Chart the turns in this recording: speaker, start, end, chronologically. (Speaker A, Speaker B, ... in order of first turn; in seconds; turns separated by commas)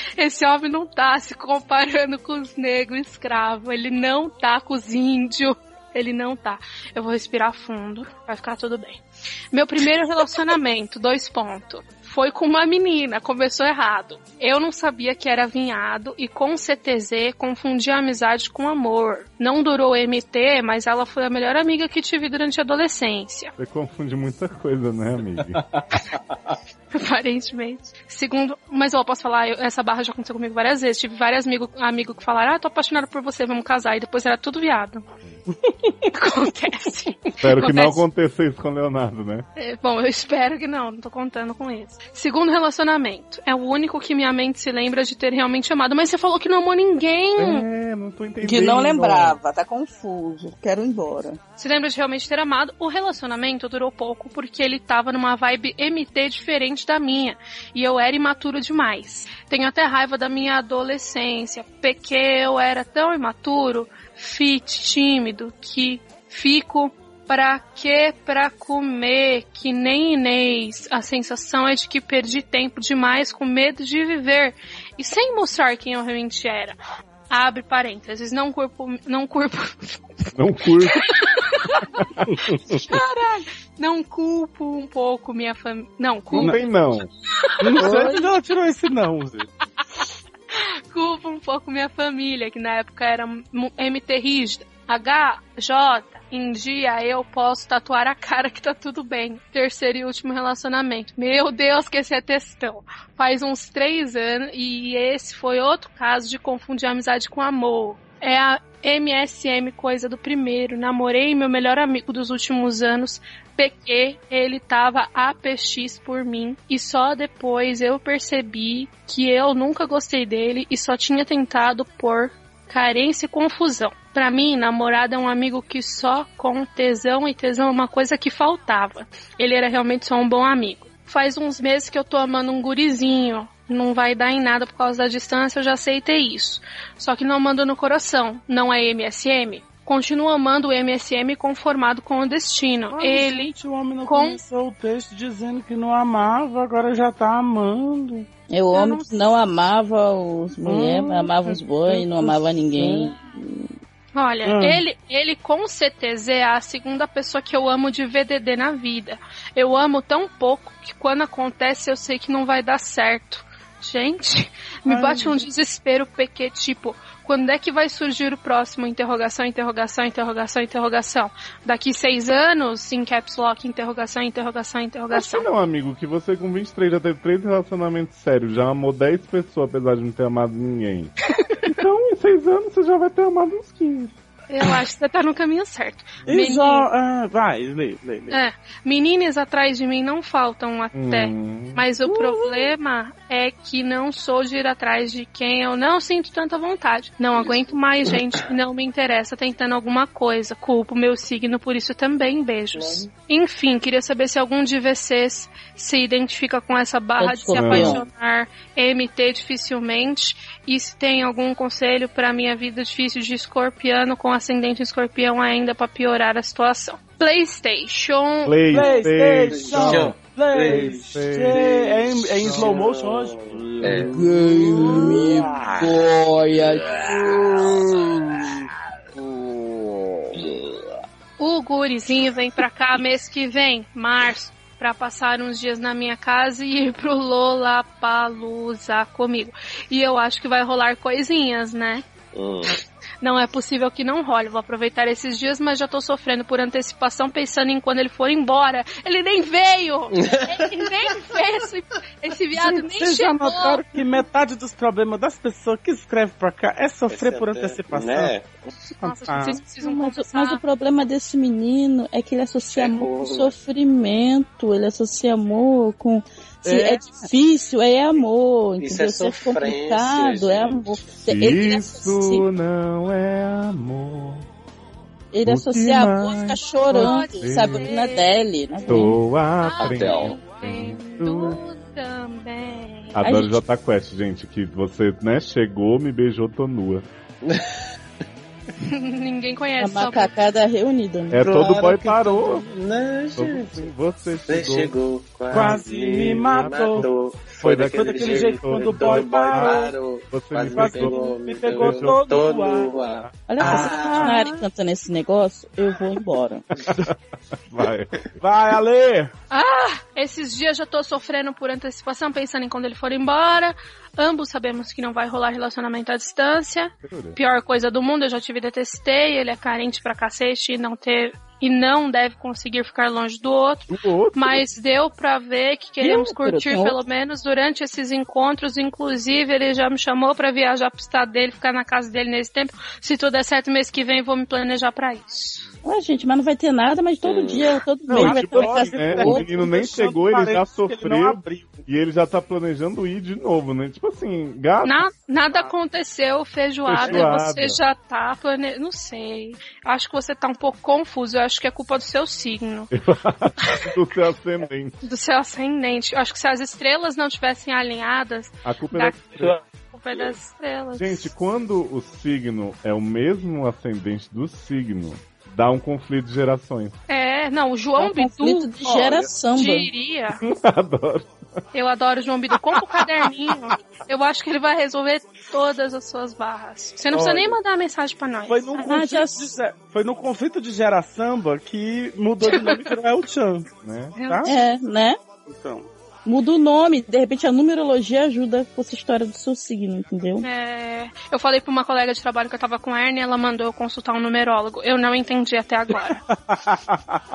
Speaker A: 0.2-23.5, Speaker B: 23.6-25.6, Speaker A: 26.9-35.0, Speaker C: 35.6-36.0, Speaker A: 36.0-38.0, Speaker B: 37.4-39.5, Speaker A: 39.6-47.6, Speaker B: 47.4-49.4, Speaker D: 48.4-51.4, Speaker A: 51.6-76.8, Speaker A: 77.3-80.2, Speaker B: 80.3-81.1, Speaker A: 80.8-82.1, Speaker B: 82.0-82.3, Speaker C: 82.3-82.8, Speaker A: 82.7-86.6, Speaker B: 86.3-87.1, Speaker A: 87.4-88.2, Speaker C: 87.6-89.5, Speaker A: 90.5-143.5, Speaker C: 142.9-148.3, Speaker A: 144.0-144.4, Speaker D: 148.5-153.7, Speaker A: 148.7-149.2, Speaker C: 150.6-153.2, Speaker A: 154.1-175.5, Speaker C: 154.4-154.8, Speaker C: 164.8-165.4, Speaker B: 175.1-181.1, Speaker A: 181.3-181.7, Speaker B: 181.7-184.1, Speaker A: 184.5-186.9, Speaker C: 186.3-188.4, Speaker A: 188.3-218.9, Speaker B: 190.9-191.8, Speaker C: 192.1-192.7, Speaker E: 197.3-197.7, Speaker E: 202.7-203.1, Speaker D: 207.2-208.1, Speaker B: 207.5-208.0, Speaker B: 218.4-220.2, Speaker C: 218.7-224.2, Speaker E: 219.5-228.6, Speaker B: 220.7-221.7, Speaker B: 222.4-222.8, Speaker D: 224.0-228.0, Speaker C: 224.7-225.3, Speaker E: 229.2-230.6, Speaker A: 231.4-242.0, Speaker E: 242.3-242.8, Speaker A: 243.2-253.8, Speaker E: 250.2-250.9, Speaker C: 252.5-258.3, Speaker E: 257.1-258.7, Speaker C: 259.0-259.6, Speaker A: 259.0-260.6, Speaker D: 259.8-272.4, Speaker E: 262.7-263.5, Speaker C: 266.6-267.2, Speaker E: 268.8-271.0, Speaker B: 271.2-274.5, Speaker D: 275.3-279.1, Speaker B: 275.4-277.9, Speaker A: 276.9-279.1, Speaker B: 278.9-281.6, Speaker A: 279.6-283.2, Speaker E: 279.8-280.4, Speaker B: 283.1-287.1, Speaker D: 283.2-283.6, Speaker E: 287.4-287.7, Speaker A: 288.8-290.3, Speaker D: 289.8-291.5, Speaker B: 291.3-292.6, Speaker E: 291.4-293.9, Speaker B: 293.4-294.9, Speaker E: 294.5-304.4, Speaker B: 295.5-302.4, Speaker C: 295.5-297.1, Speaker C: 297.9-299.9, Speaker C: 300.7-302.9, Speaker D: 303.5-306.6, Speaker C: 303.6-304.4, Speaker B: 306.9-308.4, Speaker C: 308.4-309.3, Speaker A: 309.5-335.6, Speaker B: 317.0-317.4, Speaker B: 323.9-324.6, Speaker D: 326.0-327.0, Speaker D: 335.8-339.5, Speaker E: 337.2-337.8, Speaker B: 338.1-345.0, Speaker C: 338.1-341.9, Speaker A: 344.8-352.9, Speaker B: 346.8-347.8, Speaker B: 352.9-355.0, Speaker A: 355.0-361.3, Speaker B: 358.6-359.6, Speaker B: 361.0-367.0, Speaker A: 367.1-368.7, Speaker D: 368.0-369.9, Speaker C: 368.8-369.3, Speaker A: 369.5-370.4, Speaker B: 370.4-371.3, Speaker A: 371.7-379.0, Speaker C: 377.1-377.6, Speaker C: 378.5-383.7, Speaker D: 378.8-379.5, Speaker A: 382.4-382.9, Speaker B: 383.8-384.1, Speaker A: 384.1-384.6, Speaker C: 384.2-384.5, Speaker D: 384.4-385.2, Speaker C: 385.5-385.9, Speaker D: 386.2-390.5, Speaker A: 390.4-396.2, Speaker C: 396.1-397.2